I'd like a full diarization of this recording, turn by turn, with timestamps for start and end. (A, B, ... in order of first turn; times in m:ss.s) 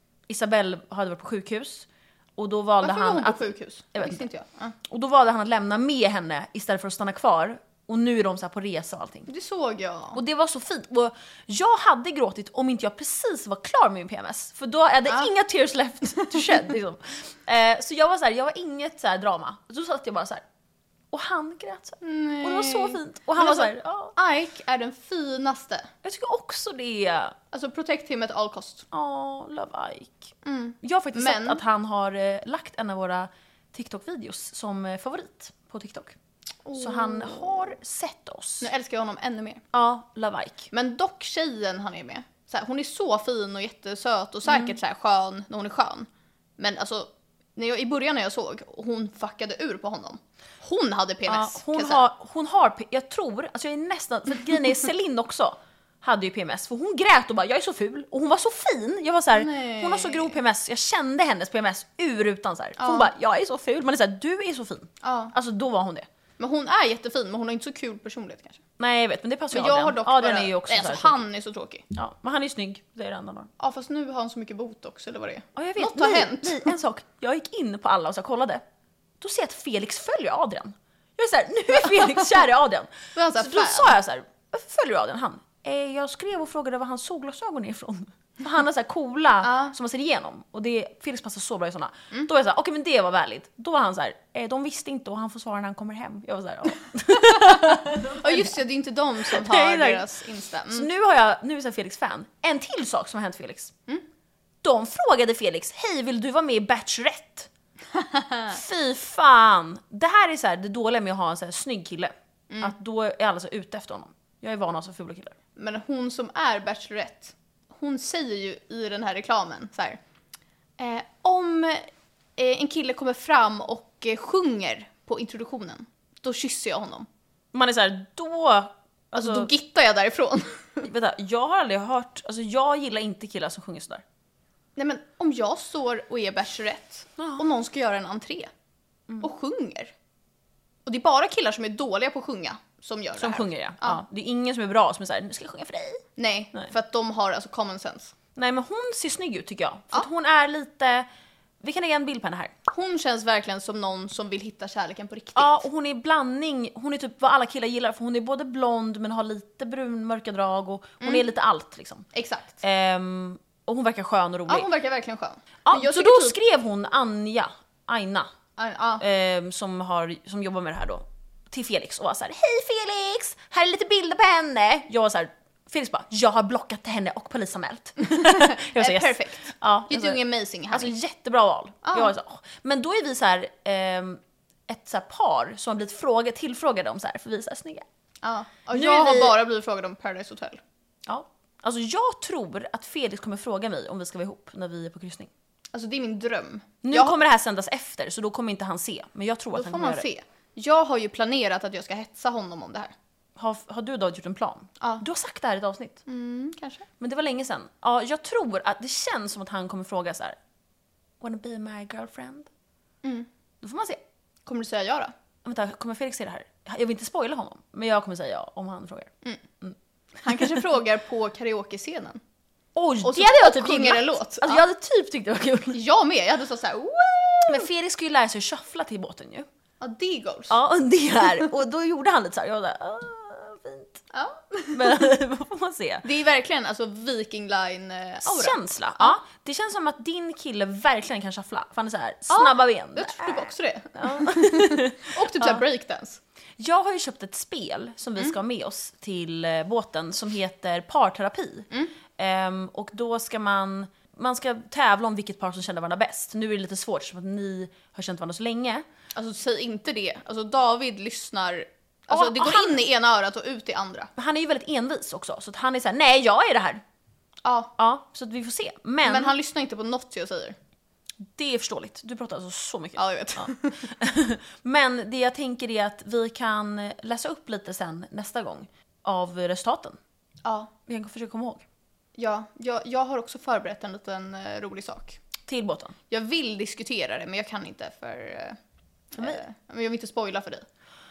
0:00.3-0:04.3 A
0:02.8-0:04.8 B
0:04.9-0:09.3 A
0:09.3-0:10.2 B
0:10.2-0:20.4 A
0:21.1-0:24.2 A
0:22.0-0:25.9 B
0:26.0-0:27.4 A
0:27.5-0:28.9 B
0:28.9-0:36.2 A
0:30.4-0:31.6 B
0:36.6-0:37.8 B
0:36.8-0:38.7 A
0:38.6-0:39.6 B
0:39.7-0:40.7 A
0:40.7-0:52.0 B
0:44.5-0:44.8 A
0:51.3-1:06.1 A
0:59.3-1:00.4 B
1:02.8-1:03.1 B
1:05.0-1:05.4 B
1:06.4-1:08.6 B
1:08.8-1:11.2 A
1:09.5-1:11.8 B
1:11.9-1:13.5 A
1:13.6-1:16.7 B
1:15.6-1:18.6 A
1:19.2-1:38.5 A
1:23.2-1:23.9 B
1:29.4-1:29.8 B
1:37.2-1:40.9 B
1:39.2-1:40.1 A
1:40.7-1:43.7 A
1:44.6-1:47.5 A
1:47.9-1:48.6 B
1:48.5-1:55.4 A
1:52.5-1:52.8 B
1:55.6-2:00.0 B
2:00.8-2:07.1 B
2:07.5-2:09.5 A
2:09.2-2:10.9 B
2:10.8-2:14.0 A
2:14.8-2:18.5 B
2:19.2-2:19.9 B
2:20.9-2:24.0 B
2:23.2-2:26.7 A
2:26.2-2:28.1 B
2:28.4-2:31.1 A
2:31.6-2:32.5 A
2:32.7-2:35.6 B
2:35.4-2:42.1 A
2:41.0-2:41.3 B
2:42.1-2:42.6 B
2:42.6-2:44.7 A
2:44.5-2:46.4 B
2:45.7-2:48.3 A
2:48.6-2:49.0 B
2:49.0-3:07.8 A
2:58.0-3:00.9 B
3:01.8-3:02.1 B
3:08.2-3:10.6 B
3:08.7-3:09.4 A
3:11.1-3:15.3 A
3:15.7-3:17.2 B
3:16.8-3:20.1 A
3:19.5-3:22.9 B
3:23.4-3:26.0 A
3:26.1-3:26.9 B
3:27.0-3:30.4 A
3:31.2-3:32.5 A
3:33.0-3:33.3 B
3:33.6-3:34.0 A
3:34.5-3:35.1 B
3:35.4-3:39.8 A
3:40.2-3:42.2 B
3:42.8-3:45.8 A
3:43.0-3:44.6 B
3:45.7-3:47.7 B
3:47.5-3:49.5 A
3:49.8-3:50.6 B
3:50.5-3:54.0 A
3:54.1-3:55.0 B
3:54.7-3:56.0 A
3:56.0-3:59.2 B
3:58.2-4:05.6 A
4:02.3-4:06.2 B
4:06.6-4:18.8 A
4:19.2-4:24.1 B
4:22.1-4:22.8 A
4:24.2-4:26.8 A
4:27.4-4:27.8 B
4:27.8-4:29.3 A
4:29.0-4:30.6 B
4:31.2-4:40.0 A
4:33.0-4:33.8 B
4:40.4-4:40.7 B
4:40.9-4:41.6 A
4:42.2-4:45.2 B
4:45.5-4:46.0 A
4:46.1-4:48.6 B
4:49.1-4:50.6 B